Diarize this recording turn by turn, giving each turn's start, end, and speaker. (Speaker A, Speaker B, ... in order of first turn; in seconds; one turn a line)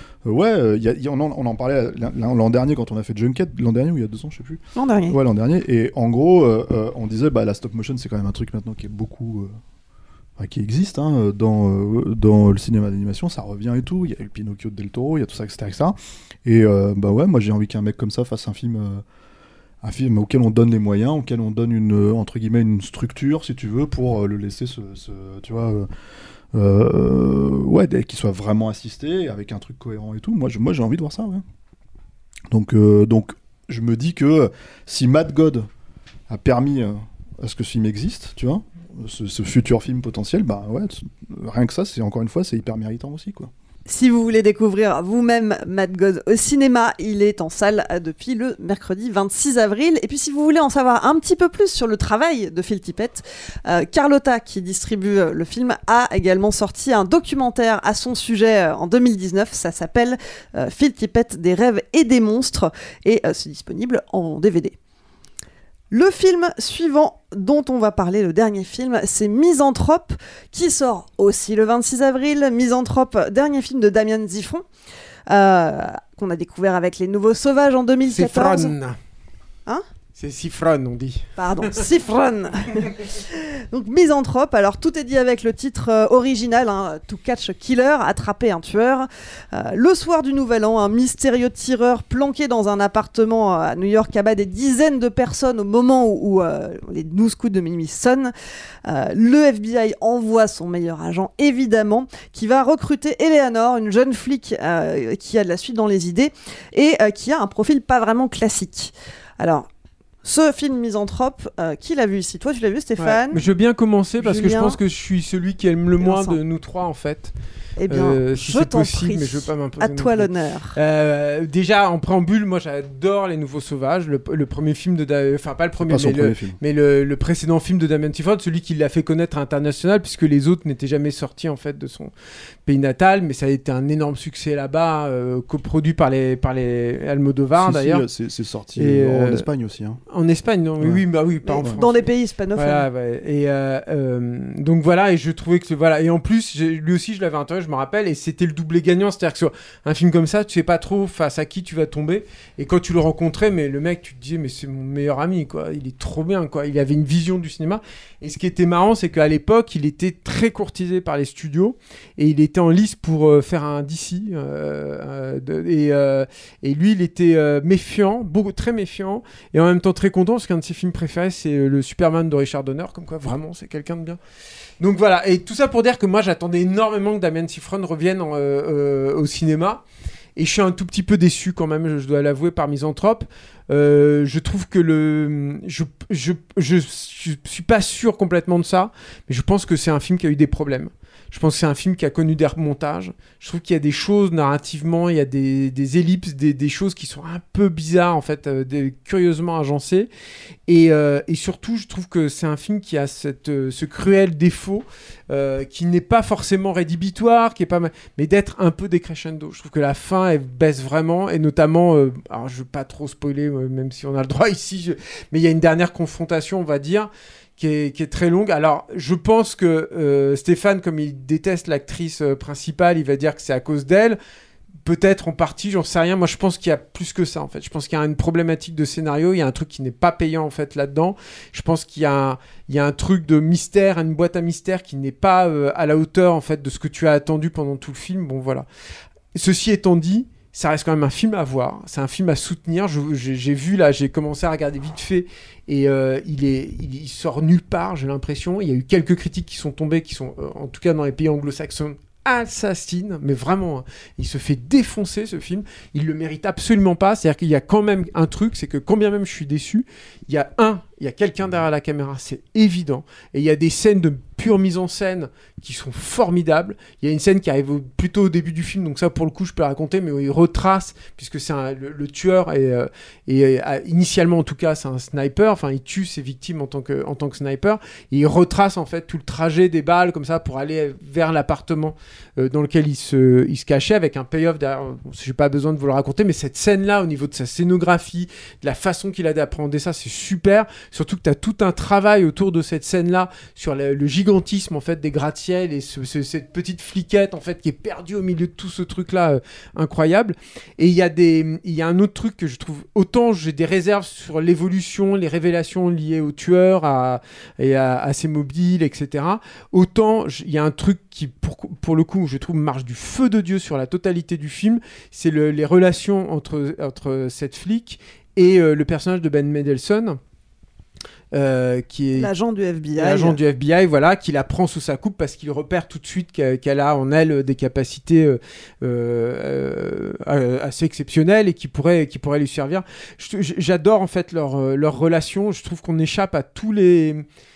Speaker A: 0.2-9.6
Speaker B: 4.8-5.2
Speaker A: 10.4-19.0
Speaker A: 19.8-25.9
Speaker A: 26.5-31.4
Speaker A: 32.5-35.7
Speaker A: 36.3-43.5
Speaker B: 43.9-64.7
Speaker B: 65.9-74.6
Speaker B: 75.3-78.7
Speaker C: 78.1-79.0
Speaker C: 80.2-81.9
Speaker B: 81.4-98.3
Speaker B: 98.8-109.7
Speaker B: 110.2-113.5
Speaker C: 113.0-117.3
Speaker B: 114.2-114.8
Speaker B: 116.0-116.4
Speaker B: 117.8-120.8
Speaker C: 117.9-132.1
Speaker A: 125.8-126.6
Speaker C: 132.7-138.0
Speaker A: 137.6-140.0
Speaker C: 138.8-139.5
Speaker C: 140.1-174.2
Speaker B: 141.4-142.8
Speaker C: 174.8-179.8
Speaker C: 180.3-200.1
Speaker C: 200.7-224.2
Speaker C: 224.8-238.7
Speaker C: 239.3-320.2
Speaker C: 321.3-322.3
Speaker B: 322.1-323.4
Speaker C: 322.9-337.2